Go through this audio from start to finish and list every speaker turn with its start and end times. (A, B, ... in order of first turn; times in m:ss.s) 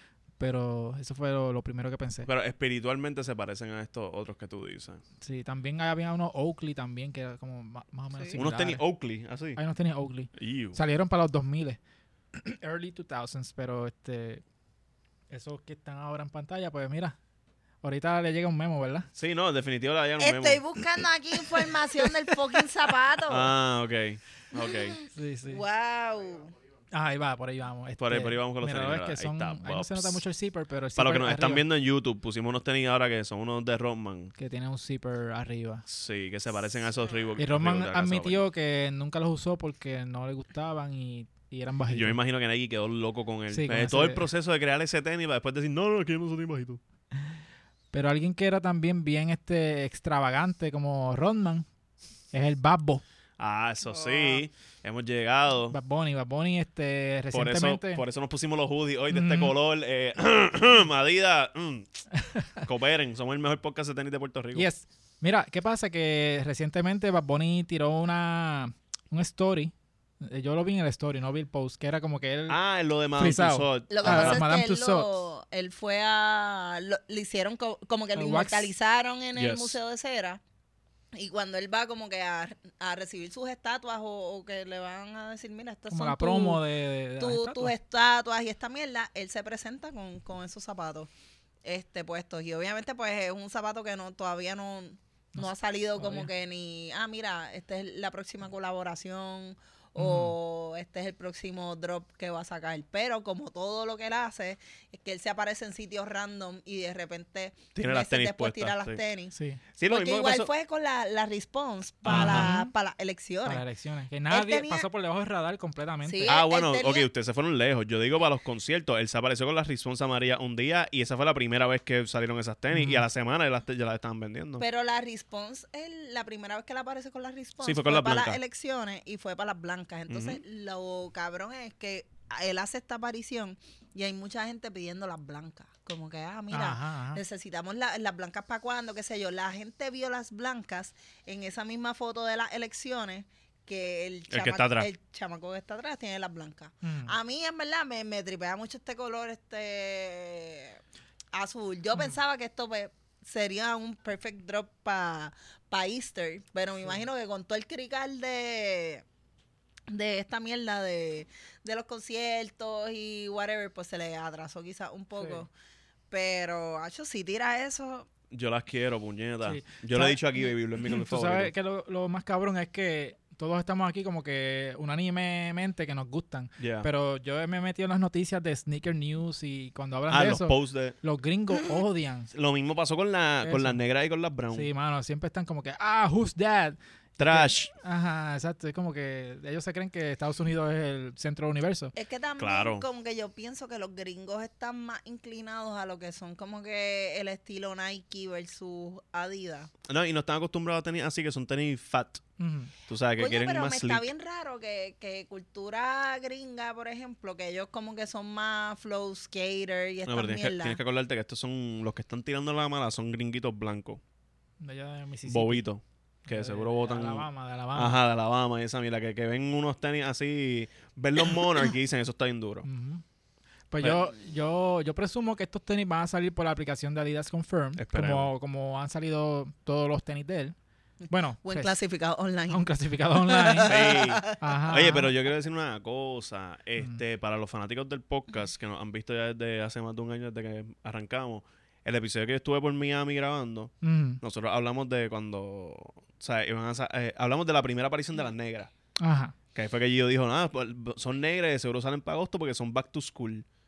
0:00.4-0:02.3 A
0:02.2-0:05.0 B
0:05.2-0:08.8 A
0:08.3-0:09.6 B
0:09.6-0:11.8 A
0:10.3-0:10.8 B
0:12.3-0:14.4 A
0:15.3-0:17.2 A
0:17.8-0:19.1 A
0:19.1-0:20.6 B
0:20.2-0:23.5 C
0:23.3-0:25.0 B
0:24.6-0:26.5 C
0:25.1-0:25.6 A
0:26.9-0:31.6 A
0:28.0-0:30.2 B
0:31.0-0:34.3 B
0:34.4-0:35.8 A
0:35.9-0:38.4 B
0:37.4-0:42.2 A
0:41.9-0:46.8 B
0:43.5-0:44.3 A
0:47.9-0:51.6 A
0:52.3-0:53.0 A
0:53.4-0:55.8 B
0:53.9-0:54.4 C
0:55.7-0:58.0 A
0:57.3-1:02.0 B
0:59.1-0:59.5 A
1:02.2-1:02.6 A
1:02.6-1:04.7 B
1:04.5-1:12.6 A
1:12.5-1:14.4 B
1:13.2-1:15.1 A
1:13.9-1:20.4 C
1:18.1-1:18.7 A
1:19.3-1:19.8 B
1:21.1-1:26.6 C
1:25.9-1:27.7 A
1:27.2-1:31.1 C
1:31.6-1:53.6 C
1:36.0-1:36.3 A
1:40.0-1:40.3 A
1:47.8-1:49.0 B
1:49.3-1:49.6 A
1:49.8-1:50.5 B
1:52.0-1:52.7 A
1:52.1-1:52.5 B
1:53.4-1:56.3 A
1:54.3-1:54.9 C
1:56.0-1:57.1 C
1:56.2-2:04.6 B
2:02.7-2:03.0 A
2:04.6-2:30.8 C
2:07.6-2:08.4 B
2:10.1-2:10.4 B
2:16.5-2:17.2 A
2:24.3-2:24.9 B
2:26.8-2:27.1 A
2:31.3-2:39.0 C
2:39.9-2:45.5 C
2:45.2-2:45.4 A
2:46.1-2:48.1 C
2:48.3-2:51.5 B
2:49.4-2:50.2 A
2:50.8-3:02.3 A
2:56.6-2:56.9 B
3:00.1-3:01.0 B
3:02.3-3:04.7 B
3:03.4-3:03.8 A
3:04.5-3:11.9 A
3:07.2-3:07.7 B
3:11.9-3:19.7 C
3:12.4-3:12.8 B
3:19.9-3:22.2 B
3:22.4-3:22.7 A
3:22.9-3:24.1 B
3:23.2-3:30.8 C
3:30.1-3:34.0 B
3:34.6-3:35.6 A
3:35.3-3:42.7 B
3:36.2-3:38.0 A
3:42.6-3:43.0 A
3:43.7-3:50.5 A
3:43.8-3:44.1 B
3:47.8-3:48.3 B
3:51.0-3:52.7 C
3:51.1-3:51.7 A
3:52.5-3:55.1 A
3:53.2-3:54.4 C
3:53.6-4:08.7 B
4:03.8-4:04.2 A
4:09.0-4:09.3 A
4:09.5-4:13.4 B